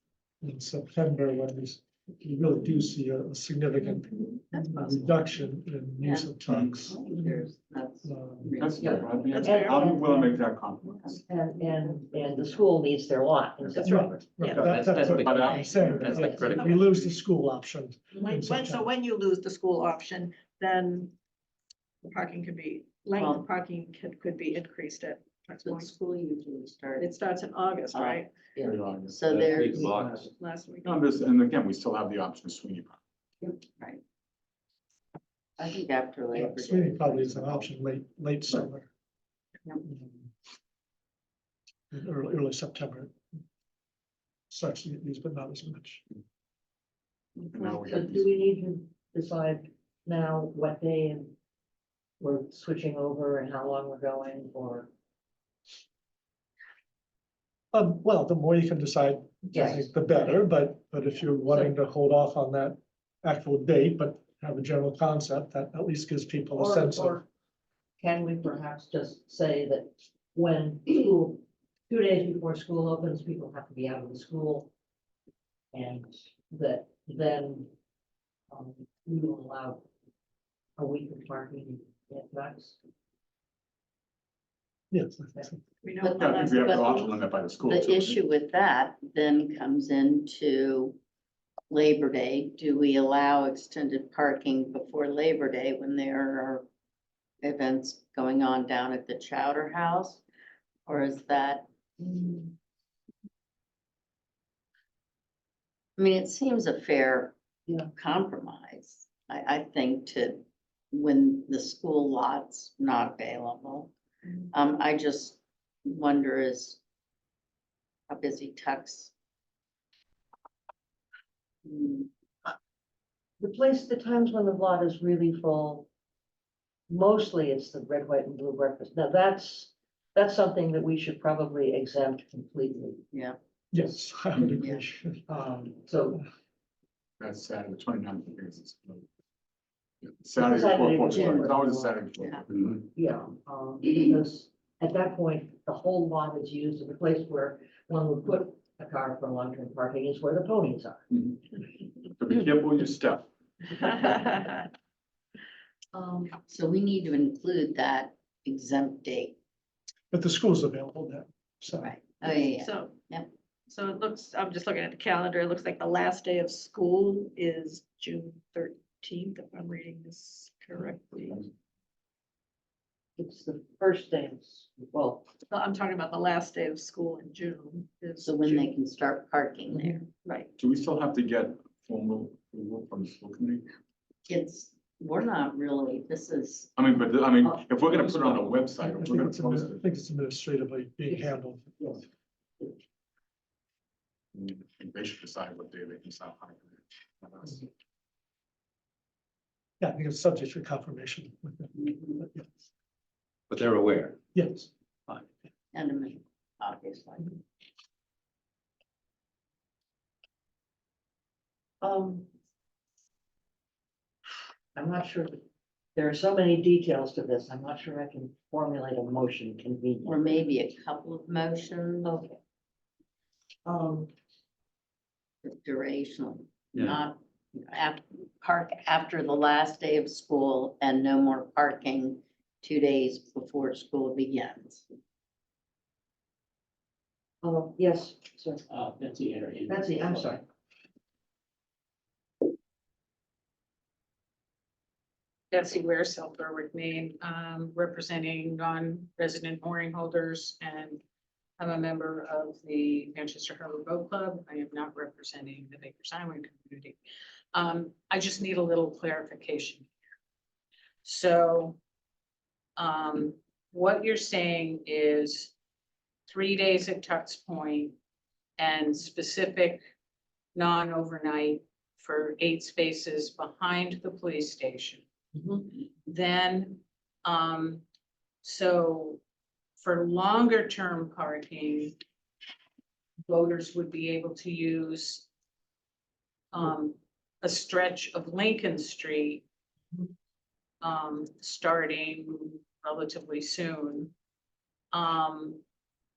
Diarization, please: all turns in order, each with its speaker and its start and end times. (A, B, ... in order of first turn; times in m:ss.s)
0:00.4-0:07.0 A
0:06.0-0:06.3 B
0:06.5-0:06.8 C
0:06.9-0:09.7 B
0:08.0-0:08.6 A
0:08.6-0:11.2 C
0:08.8-0:10.4 D
0:09.3-0:09.9 E
0:10.9-0:12.6 B
0:11.3-0:14.1 D
0:13.8-0:14.7 E
0:13.8-0:18.9 A
0:14.7-0:15.4 F
0:14.7-0:16.6 G
0:15.2-0:16.1 C
0:16.2-0:16.5 D
0:16.6-0:16.9 E
0:18.2-0:21.1 E
0:22.0-0:25.9 E
0:23.2-0:23.4 B
0:25.6-0:27.1 B
0:27.0-0:28.5 E
0:27.9-0:29.9 B
0:29.3-0:30.1 G
0:29.4-0:30.2 F
0:29.8-0:30.3 D
0:30.3-0:31.0 E
0:30.8-0:33.0 C
0:35.6-0:37.7 B
0:36.3-0:38.9 A
0:39.8-0:40.3 A
0:41.9-0:43.2 A
0:44.5-0:46.0 A
0:47.6-0:48.2 C
0:47.6-0:51.3 D
0:52.2-0:54.9 D
0:57.7-1:07.2 A
0:59.5-1:00.3 D
1:01.5-1:01.7 D
1:06.6-1:07.2 D
1:08.0-1:14.7 D
1:15.7-1:17.7 D
1:18.5-1:19.8 D
1:20.8-1:22.8 D
1:24.9-1:25.6 A
1:25.8-1:27.2 E
1:26.0-1:31.0 B
1:26.2-1:28.2 C
1:31.7-1:36.7 B
1:37.4-1:40.2 B
1:40.9-1:41.7 B
1:42.1-1:42.4 D
1:46.0-1:47.4 B
1:47.9-1:53.9 B
1:54.5-1:56.8 B
1:58.1-1:59.1 B
2:01.6-2:02.1 B
2:03.4-2:05.9 D
2:06.9-2:13.0 D
2:13.7-2:15.3 A
2:14.4-2:14.8 B
2:15.3-2:16.2 D
2:17.2-2:19.1 C
2:20.0-2:22.8 C
2:20.3-2:22.0 D
2:21.1-2:21.5 B
2:22.2-2:22.4 B
2:22.9-2:31.0 D
2:31.1-2:31.4 C
2:32.2-2:33.3 C
2:33.8-2:34.7 E
2:36.0-2:36.3 D
2:36.5-2:39.4 B
2:40.1-2:42.4 A
2:41.8-2:43.3 B
2:42.5-2:43.0 E
2:43.7-2:51.5 E
2:53.2-2:55.3 D
2:55.5-2:58.7 E
2:58.2-3:00.1 B
3:00.2-3:00.5 E
3:00.6-3:03.7 C
3:04.3-3:06.8 B
3:06.8-3:09.8 C
3:08.8-3:12.0 A
3:14.3-3:17.6 C
3:19.8-3:22.5 A
3:23.6-3:24.2 G
3:24.3-3:24.7 A
3:25.7-3:27.4 B
3:31.8-3:32.3 D
3:34.8-3:35.4 D
3:36.0-3:40.3 D
3:40.0-3:42.1 B
3:42.0-3:42.4 D
3:43.7-3:44.1 D
3:45.4-3:54.8 B
3:57.4-3:58.6 D
3:58.7-4:00.3 F
3:59.7-4:00.4 D
4:05.5-4:11.0 H
4:11.6-4:17.0 H
4:17.5-4:19.9 H
4:21.0-4:21.8 H
4:22.8-4:25.5 H
4:26.3-4:28.0 H
4:28.6-4:29.8 H
4:30.6-4:35.0 H
4:35.7-4:37.8 H
4:38.4-4:39.2 H
4:39.8-4:42.0 H
4:43.3-4:45.3 H
4:46.5-4:49.4 H
4:50.8-4:54.1 H
4:54.9-4:55.6 H